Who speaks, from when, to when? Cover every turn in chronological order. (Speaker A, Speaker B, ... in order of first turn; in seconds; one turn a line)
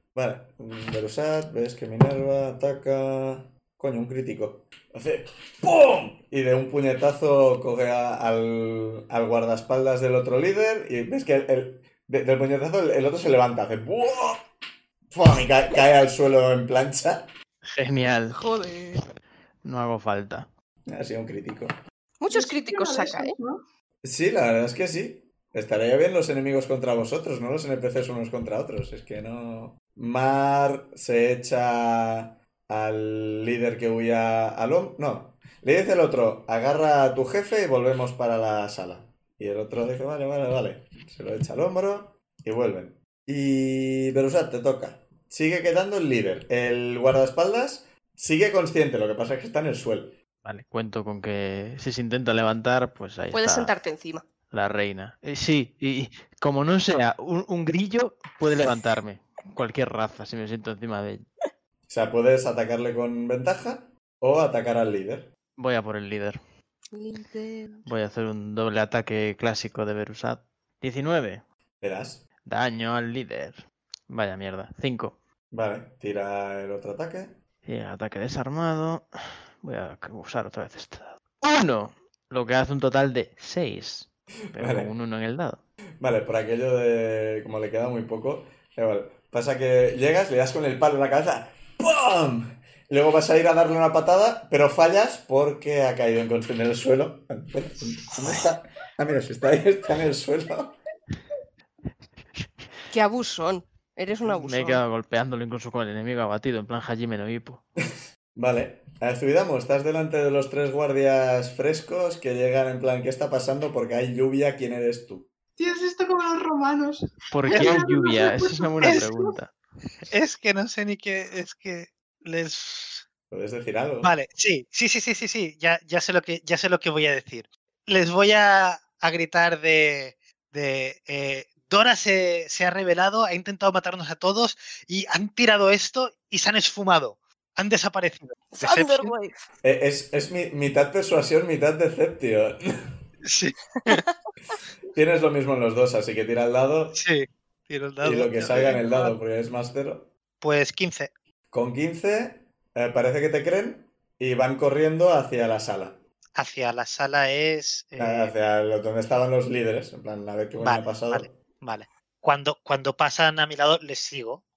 Speaker A: 0.1-14.5
Speaker A: 15.1-17.3
Speaker B: 17.6-18.4
Speaker C: 18.3-19.1
Speaker B: 19.6-20.5
Speaker A: 20.9-21.7
Speaker C: 22.2-23.3
Speaker D: 22.3-23.6
Speaker A: 24.0-50.2
Speaker B: 50.4-53.7
Speaker C: 53.3-54.3
Speaker B: 54.5-61.3
Speaker A: 61.9-65.3
Speaker B: 65.5-66.4
Speaker C: 66.9-67.9
Speaker B: 67.8-71.4
Speaker A: 71.8-72.2
Speaker B: 72.4-75.2
Speaker A: 75.5-77.4
Speaker B: 77.6-79.0
Speaker B: 79.6-85.6
Speaker A: 84.5-84.9
Speaker A: 86.0-100.8
Speaker C: 102.9-104.8
Speaker B: 104.2-107.6
Speaker A: 107.9-115.3
Speaker D: 115.6-119.4
Speaker B: 117.3-119.5
Speaker E: 117.5-117.8
Speaker E: 120.0-123.1
Speaker A: 123.3-124.1
Speaker E: 124.0-139.1
Speaker C: 138.5-139.3
Speaker A: 139.6-142.9
Speaker E: 143.2-144.0
Speaker C: 143.8-144.1
Speaker A: 144.9-147.0
Speaker E: 146.9-149.1
Speaker A: 148.0-150.1
Speaker E: 150.4-151.1
Speaker A: 151.5-156.0
Speaker E: 156.3-158.3
Speaker A: 158.0-161.4
Speaker E: 160.6-164.4